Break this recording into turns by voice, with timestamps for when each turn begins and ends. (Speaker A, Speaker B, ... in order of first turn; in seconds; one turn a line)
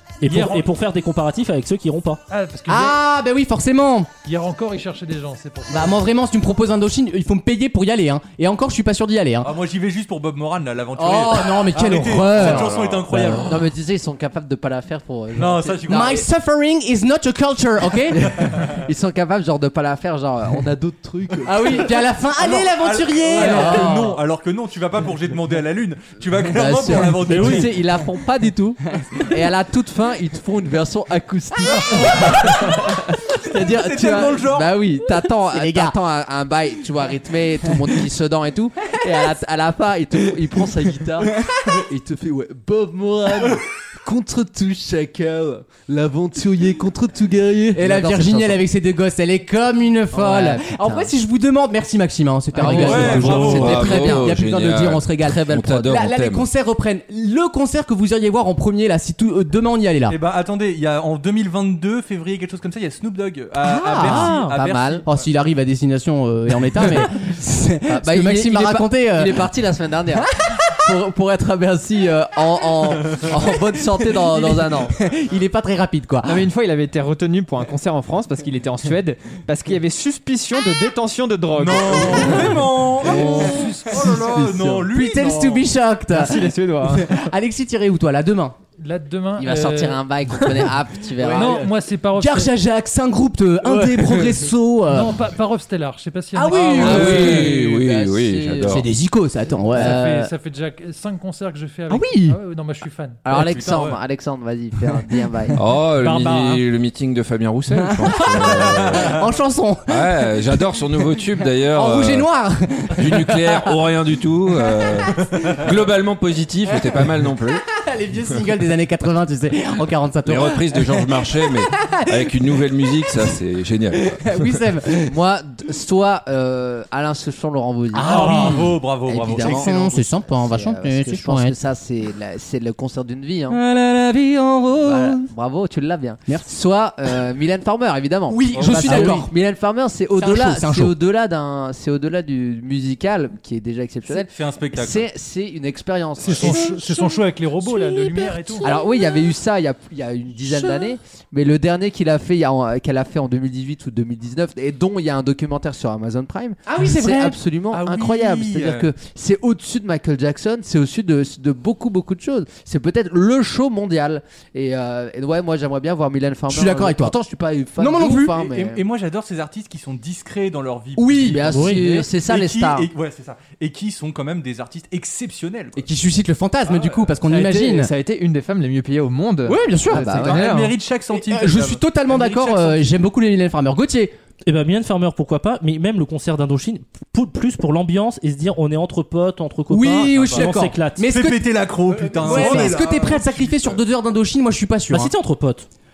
Speaker A: 0.2-2.2
Speaker B: 0.2-0.7
Speaker B: 2.3-3.0
Speaker C: 2.7-4.1
Speaker B: 4.2-6.0
Speaker C: 5.7-9.5
Speaker D: 9.4-13.6
Speaker C: 11.0-13.4
Speaker E: 12.3-16.2
Speaker D: 15.3-16.2
Speaker C: 15.9-18.3
Speaker E: 18.2-21.9
Speaker C: 21.4-24.2
Speaker D: 22.4-27.8
Speaker E: 23.3-24.0
Speaker E: 26.5-48.6
Speaker A: 27.3-27.7
Speaker D: 31.9-32.4
Speaker D: 33.5-34.7
Speaker C: 35.5-36.0
Speaker C: 47.7-60.2
Speaker E: 50.1-51.1
Speaker E: 52.5-54.4
Speaker D: 52.6-53.9
Speaker F: 53.0-56.5
Speaker E: 55.2-55.9
Speaker D: 60.1-65.2
Speaker C: 63.6-64.4
Speaker A: 64.2-64.5
Speaker E: 64.3-65.0
Speaker C: 65.0-69.5
Speaker E: 67.9-74.9
Speaker C: 74.3-76.4
Speaker G: 76.2-82.6
Speaker D: 81.5-85.7
Speaker B: 83.0-84.3
Speaker E: 83.1-84.9
Speaker C: 84.9-88.5
Speaker G: 86.1-87.2
Speaker B: 88.8-90.6
Speaker E: 89.4-91.7
Speaker C: 91.2-91.6
Speaker B: 91.3-92.5
Speaker C: 92.2-95.2
Speaker B: 94.9-97.4
Speaker C: 96.3-97.5
Speaker E: 96.8-98.8
Speaker F: 96.8-98.9
Speaker C: 98.6-100.3
Speaker B: 99.7-103.2
Speaker E: 99.8-100.1
Speaker C: 101.9-102.4
Speaker E: 103.2-105.6
Speaker D: 103.3-104.0
Speaker F: 105.5-109.2
Speaker B: 106.0-106.6
Speaker C: 107.8-110.6
Speaker F: 109.9-112.3
Speaker C: 111.7-113.8
Speaker F: 113.0-117.6
Speaker C: 117.7-122.3
Speaker F: 120.2-124.2
Speaker C: 123.9-125.1
Speaker E: 125.1-133.6
Speaker C: 127.9-128.8
Speaker D: 128.0-129.7
Speaker C: 129.3-131.6
Speaker C: 133.5-135.3
Speaker E: 134.8-146.8
Speaker C: 138.3-139.3
Speaker D: 138.5-139.2
Speaker C: 140.2-140.9
Speaker D: 144.1-145.1
Speaker B: 146.2-148.7
Speaker C: 146.6-146.9
Speaker C: 147.8-148.7
Speaker E: 148.6-168.8
Speaker C: 150.5-150.9
Speaker C: 156.7-157.4
Speaker D: 157.7-158.9
Speaker C: 166.5-167.1
Speaker C: 167.8-168.3
Speaker D: 168.3-175.8
Speaker C: 171.0-171.5
Speaker E: 171.3-172.9
Speaker A: 171.5-172.0
Speaker C: 175.8-177.9
Speaker D: 176.7-177.2
Speaker G: 177.2-180.8
Speaker C: 179.4-180.4
Speaker E: 180.0-180.4
Speaker D: 180.1-182.9
Speaker C: 181.1-184.1
Speaker A: 184.4-191.1
Speaker C: 189.7-191.5
Speaker D: 190.1-193.8
Speaker C: 192.2-195.1
Speaker A: 194.9-195.7